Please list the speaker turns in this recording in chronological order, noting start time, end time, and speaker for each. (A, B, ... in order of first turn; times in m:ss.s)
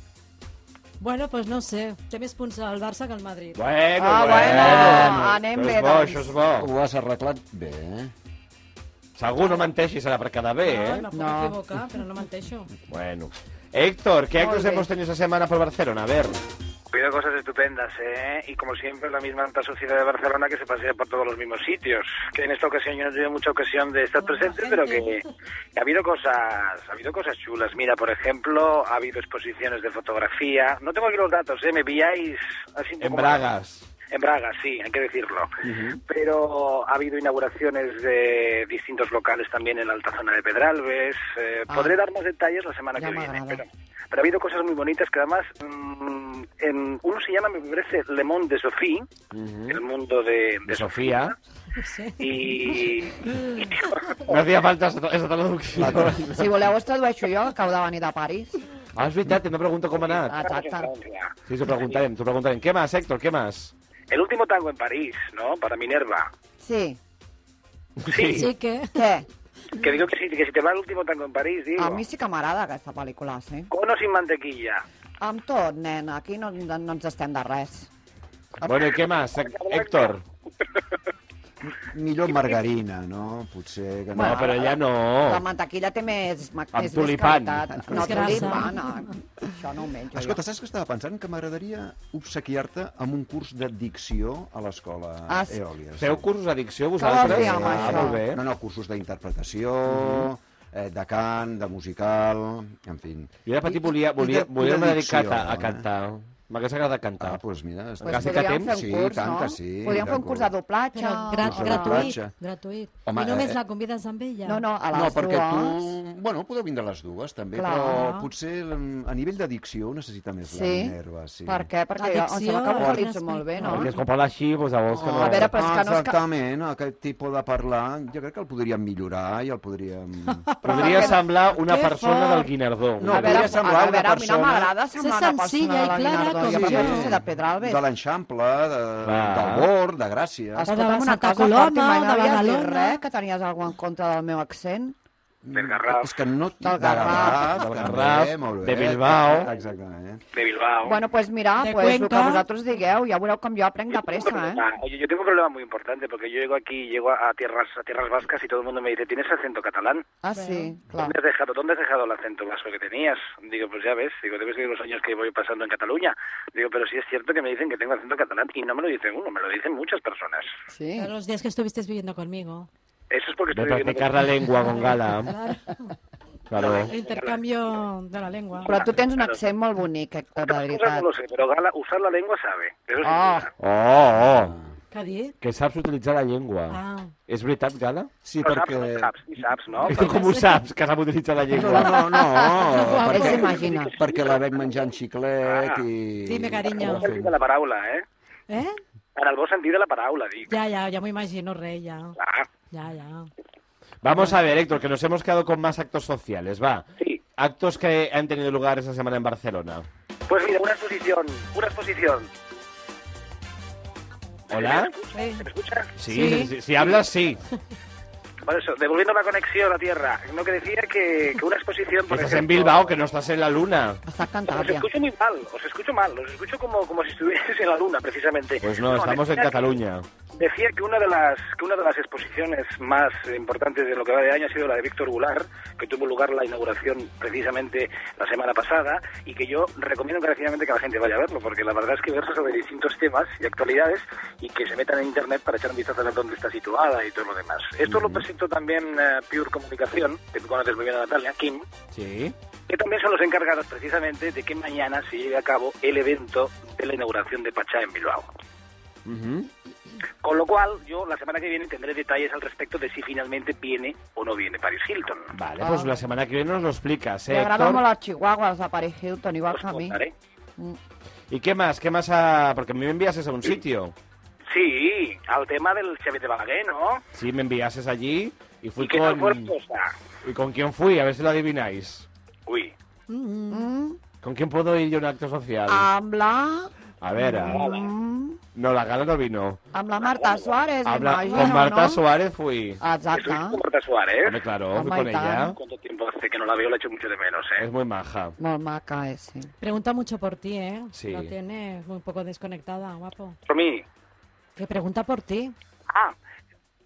0:01.0-0:03.7 A
0:03.6-0:06.7 B
0:04.0-0:06.4 C
0:04.3-0:05.3 D
0:06.5-0:08.1 D
0:09.2-0:11.1 B
0:10.6-0:12.7 A
0:11.1-0:11.6 C
0:12.9-0:16.4 B
0:14.4-0:14.9 C
0:16.9-0:33.5 E
0:24.2-0:25.2 A
0:33.0-0:33.9 B
0:34.1-0:35.6 E
0:35.6-0:36.0 B
0:36.1-0:49.1 E
0:41.7-0:42.0 C
0:43.0-0:43.6 C
0:49.3-0:49.8 B
0:49.7-0:51.4 E
0:50.7-0:51.4 B
0:51.8-0:52.9 A
0:52.2-0:54.3 E
0:54.1-0:56.5 B
0:55.8-0:56.4 D
0:56.3-0:58.6 C
0:59.0-1:00.4 B
1:00.0-1:02.0 E
1:00.3-1:00.9 C
1:01.5-1:03.7 B
1:04.1-1:06.3 E
1:06.6-1:07.0 C
1:08.0-1:08.5 B
1:08.1-1:08.5 E
1:08.3-1:09.0 A
1:08.9-1:09.3 C
1:09.7-1:12.0 E
1:11.8-1:13.7 C
1:13.7-1:14.8 E
1:15.2-1:17.9 C
1:18.6-1:20.2 B
1:19.3-1:20.2 E
1:21.6-1:24.6 D
1:24.2-1:30.4 C
1:24.2-1:25.4 B
1:26.7-1:28.5 B
1:27.9-1:29.1 A
1:30.1-1:36.3 D
1:35.3-1:35.6 C
1:36.0-1:38.4 B
1:37.0-1:38.2 C
1:37.1-1:45.8 D
1:39.9-1:40.3 B
1:43.5-1:47.4 B
1:47.2-1:50.5 D
1:48.0-1:48.8 B
1:48.0-1:52.2 C
1:50.9-1:54.6 A
1:51.4-1:52.3 D
1:53.1-1:53.6 D
1:54.4-1:56.0 C
1:54.9-2:01.7 D
1:57.6-1:58.1 C
1:57.9-1:58.3 A
2:00.5-2:03.9 C
2:02.0-2:04.0 A
2:03.6-2:05.6 B
2:04.9-2:10.5 D
2:05.1-2:06.2 C
2:10.4-2:12.5 A
2:10.6-2:13.6 B
2:10.6-2:11.2 C
2:13.0-2:14.7 D
2:13.1-2:17.8 C
2:15.0-2:17.1 A
2:16.3-2:20.7 D
2:19.0-2:19.7 B
2:20.6-2:25.0 C
2:20.7-2:23.0 A
2:25.4-2:30.2 D
2:25.5-2:26.2 E
2:26.6-2:27.9 C
2:27.1-2:29.5 B
2:30.3-2:31.0 E
2:30.8-2:34.6 C
2:31.6-2:32.4 A
2:33.9-2:40.1 E
2:40.2-2:41.2 C
2:40.3-2:40.7 A
2:41.0-2:50.5 E
2:50.7-2:51.1 C
2:51.0-2:52.7 A
2:53.1-2:54.4 E
2:53.5-2:55.4 B
2:54.5-2:55.9 A
2:56.5-2:56.9 B
2:56.6-2:57.4 E
2:56.8-2:58.8 A
2:58.6-2:59.4 E
2:58.7-3:01.1 C
3:00.4-3:03.5 E
3:03.0-3:03.5 C
3:03.6-3:04.6 B
3:04.3-3:04.7 D
3:04.9-3:05.4 A
3:05.4-3:08.1 B
3:06.7-3:07.1 A
3:08.2-3:09.1 D
3:08.4-3:10.2 E
3:09.8-3:10.6 A
3:09.8-3:12.0 B
3:11.5-3:17.4 D
3:11.6-3:13.8 A
3:12.7-3:13.9 C
3:13.7-3:14.5 E
3:15.4-3:15.8 E
3:16.3-3:17.1 A
3:16.8-3:18.0 E
3:18.5-3:18.8 A
3:19.2-3:20.5 E
3:20.5-3:22.2 A
3:22.2-3:22.5 E
3:22.7-3:23.3 A
3:24.0-3:29.9 B
3:30.3-3:32.3 E
3:34.5-3:36.0 E
3:34.5-3:34.9 B
3:35.1-3:35.5 A
3:36.0-3:37.4 B
3:36.1-3:36.5 A
3:36.1-3:36.5 C
3:38.4-3:42.9 E
3:42.1-3:44.0 B
3:44.1-3:44.9 C
3:44.5-3:49.8 E
3:48.6-3:50.1 B
3:50.4-4:11.7 E
4:11.9-4:12.4 B
4:12.7-4:18.3 E
4:19.0-4:19.5 B
4:20.2-4:25.3 E
4:25.3-4:27.8 B
4:25.6-4:26.0 C
4:27.3-4:30.0 C
4:29.5-4:30.1 E
4:31.3-4:33.9 B
4:34.5-4:37.0 E
4:37.2-4:39.5 B
4:38.8-4:39.9 E
4:40.2-4:42.1 B
4:42.5-4:42.7 E
4:43.1-4:43.7 A
4:43.5-4:44.0 C
4:44.2-4:45.9 B
4:45.7-4:48.4 C
4:47.0-4:47.7 B
4:47.5-4:47.9 E
4:48.6-4:49.6 B
4:49.7-4:52.0 C
4:50.0-4:50.6 E
4:50.8-4:52.8 B
4:51.2-4:51.6 A
4:52.8-4:53.6 C
4:53.1-4:54.4 E
4:54.2-4:55.6 B
4:54.7-4:55.6 C
4:55.6-4:57.7 E
4:57.6-4:58.4 B
4:58.4-4:59.5 C
4:59.6-5:03.4 A
5:00.9-5:01.3 B
5:03.5-5:03.8 E
5:04.6-5:05.6 A
5:05.9-5:06.2 E